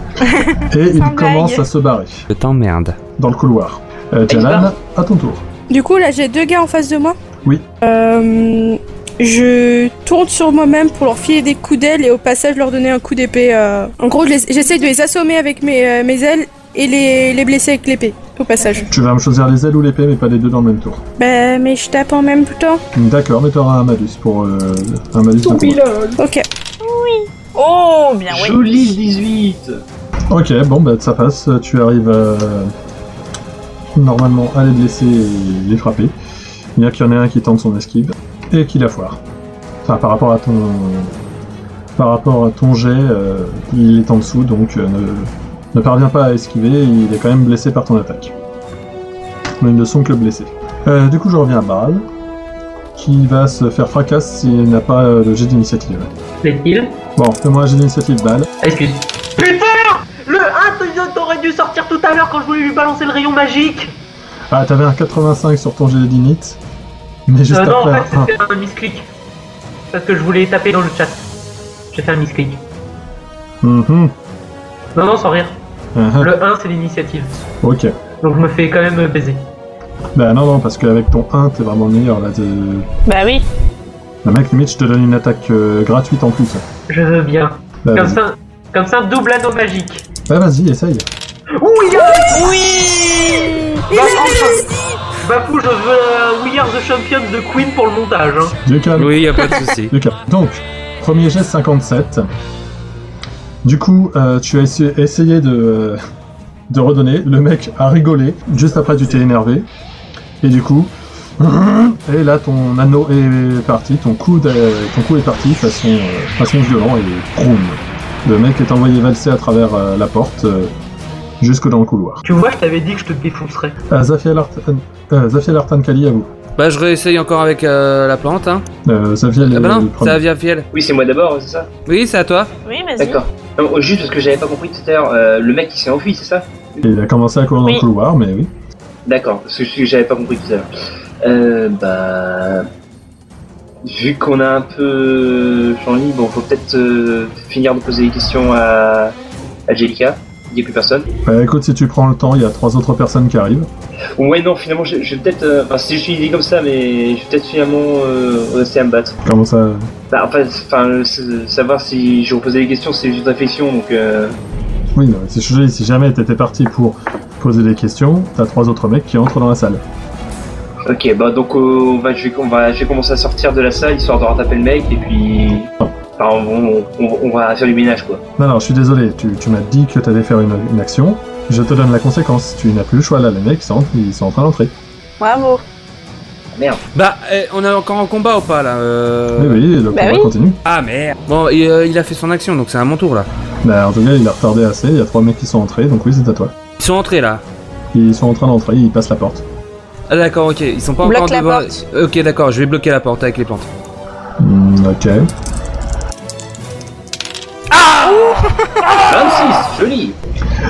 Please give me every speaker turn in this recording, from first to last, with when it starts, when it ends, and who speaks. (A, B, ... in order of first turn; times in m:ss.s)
0:00.2-0:01.6 A
0:00.7-0:02.3 B
0:02.3-0:03.0 C
0:03.2-0:05.4 B
0:04.3-0:04.7 D
0:05.7-0:07.2 E
0:07.8-0:18.9 E
0:18.9-0:21.0 B
0:21.2-0:22.8 E
0:22.9-0:25.9 B
0:25.4-0:26.2 D
0:26.2-0:26.5 E
0:26.8-0:28.9 A
0:28.3-0:29.8 D
0:30.3-0:32.7 B
0:33.9-0:36.1 B
0:36.8-0:39.2 B
0:39.8-0:41.1 B
0:42.0-0:48.3 B
0:49.6-0:52.0 B
0:52.9-0:56.1 B
0:56.4-0:56.9 F
0:57.2-0:58.5 B
0:58.6-1:03.9 F
1:04.5-1:06.6 B
1:07.3-1:08.3 B
1:07.5-1:09.1 F
1:09.9-1:11.3 F
1:11.9-1:12.6 F
1:13.6-1:14.1 B
1:14.9-1:15.6 F
1:15.9-1:16.3 B
1:16.2-1:17.4 F
1:17.6-1:17.9 B
1:18.2-1:19.4 F
1:20.1-1:22.9 B
1:23.0-1:23.4 A
1:24.2-1:26.6 B
1:26.9-1:30.0 F
1:27.8-1:28.2 B
1:30.3-1:31.1 B
1:31.5-1:32.5 F
1:32.2-1:34.0 A
1:33.9-1:34.7 F
1:35.2-1:38.6 F
1:38.6-1:42.3 B
1:38.9-1:39.9 C
1:43.6-1:46.0 B
1:46.7-1:49.7 B
1:50.4-2:00.7 B
2:01.4-2:02.2 B
2:02.2-2:03.8 F
2:03.9-2:06.3 B
2:06.6-2:08.6 C
2:08.8-2:10.2 B
2:09.4-2:10.6 C
2:10.7-2:11.7 D
2:11.8-2:12.5 C
2:12.6-2:13.2 A
2:13.0-2:16.9 D
2:16.8-2:18.5 B
2:19.0-2:20.7 D
2:21.2-2:22.7 D
2:23.8-2:29.1 D
2:29.7-2:31.1 D
2:31.2-2:33.7 B
2:34.2-2:39.2 D
2:39.2-2:39.9 B
2:40.1-2:44.3 D
2:44.9-2:49.8 B
2:50.8-2:58.2 D
2:58.4-3:04.7 B
3:05.2-3:05.6 A
3:06.5-3:06.8 D
3:06.9-3:09.6 C
3:09.4-3:10.6 B
3:09.9-3:10.3 A
3:10.6-3:13.3 C
3:13.6-3:16.5 B
3:16.8-3:17.4 C
3:17.9-3:19.4 B
3:20.1-3:23.7 C
3:21.0-3:21.8 A
3:24.4-3:25.2 B
3:27.7-3:28.5 C
3:28.1-3:28.3 A
3:29.1-3:30.2 D